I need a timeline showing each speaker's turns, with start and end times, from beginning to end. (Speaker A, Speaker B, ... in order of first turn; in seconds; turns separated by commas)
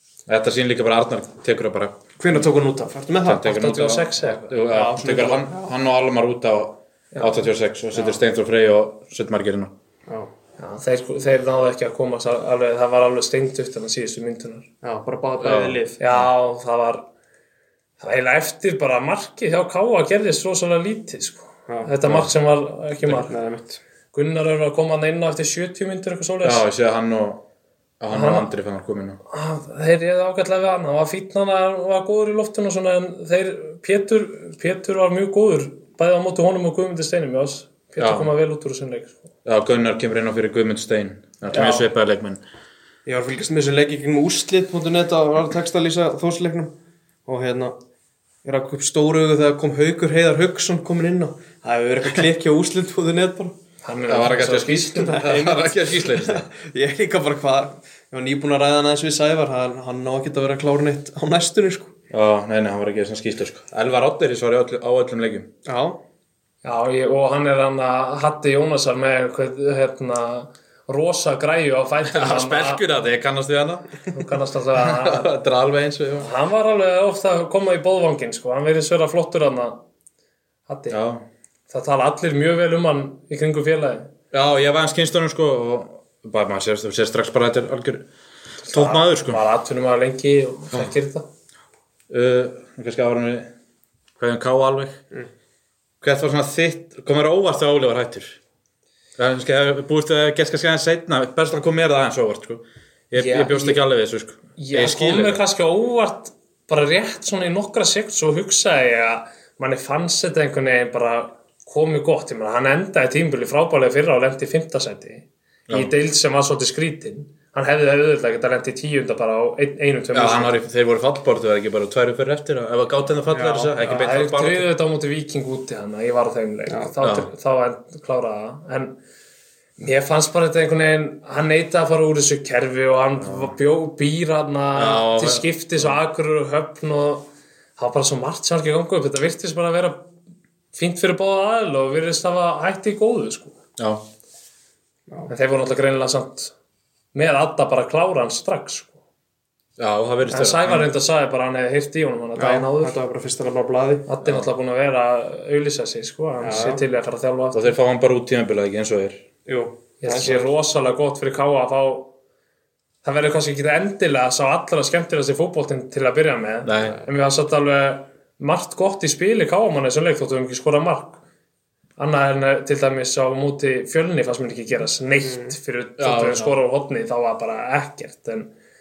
Speaker A: 0.3-2.0, Speaker B: 2.2-3.5, Speaker A: 3.2-9.7, Speaker C: 3.4-4.5, Speaker B: 4.7-5.7, Speaker C: 7.1-7.4, Speaker B: 7.9-8.2, Speaker C: 10.6-14.7, Speaker B: 14.8-16.0, Speaker A: 15.4-16.2, Speaker C: 16.0-17.0, Speaker C: 18.0-23.3, Speaker A: 22.0-22.3, Speaker B: 23.0-23.8, Speaker C: 24.1-26.6, Speaker A: 26.4-27.4, Speaker A: 28.0-29.2, Speaker C: 28.1-28.5, Speaker C: 29.3-39.2, Speaker A: 38.0-38.3, Speaker A: 39.4-42.4, Speaker C: 41.5-41.9, Speaker B: 43.0-46.7, Speaker B: 47.2-47.8, Speaker B: 48.4-53.6, Speaker C: 53.8-55.2, Speaker A: 54.1-56.5, Speaker B: 54.9-61.9, Speaker A: 62.1-65.5, Speaker B: 65.6-66.0, Speaker C: 66.6-72.8, Speaker A: 72.0-74.0, Speaker C: 74.1-75.3, Speaker A: 74.7-76.3, Speaker C: 76.2-79.8, Speaker C: 80.7-81.0, Speaker A: 80.9-81.2, Speaker C: 81.7-84.1, Speaker A: 84.3-88.0, Speaker C: 88.6-91.2, Speaker A: 88.7-89.4, Speaker A: 92.1-93.5, Speaker A: 94.2-95.0, Speaker A: 96.0-98.4, Speaker A: 99.2-105.4, Speaker C: 103.1-103.8, Speaker C: 104.6-120.5, Speaker A: 120.1-124.7, Speaker B: 123.3-123.9, Speaker C: 123.8-128.9, Speaker A: 127.0-127.3, Speaker C: 129.8-137.2, Speaker A: 133.2-133.5, Speaker A: 134.7-136.0, Speaker C: 137.8-140.1, Speaker C: 140.7-143.6, Speaker C: 145.3-146.5, Speaker C: 147.1-148.9, Speaker A: 149.8-150.9, Speaker C: 150.3-153.0, Speaker B: 152.3-154.1, Speaker C: 154.1-157.7, Speaker B: 156.4-156.8, Speaker A: 157.5-159.2, Speaker B: 159.4-160.5, Speaker C: 160.0-162.1, Speaker C: 163.0-171.2, Speaker A: 166.6-167.0, Speaker C: 172.0-178.5, Speaker B: 175.2-175.6, Speaker A: 176.0-176.6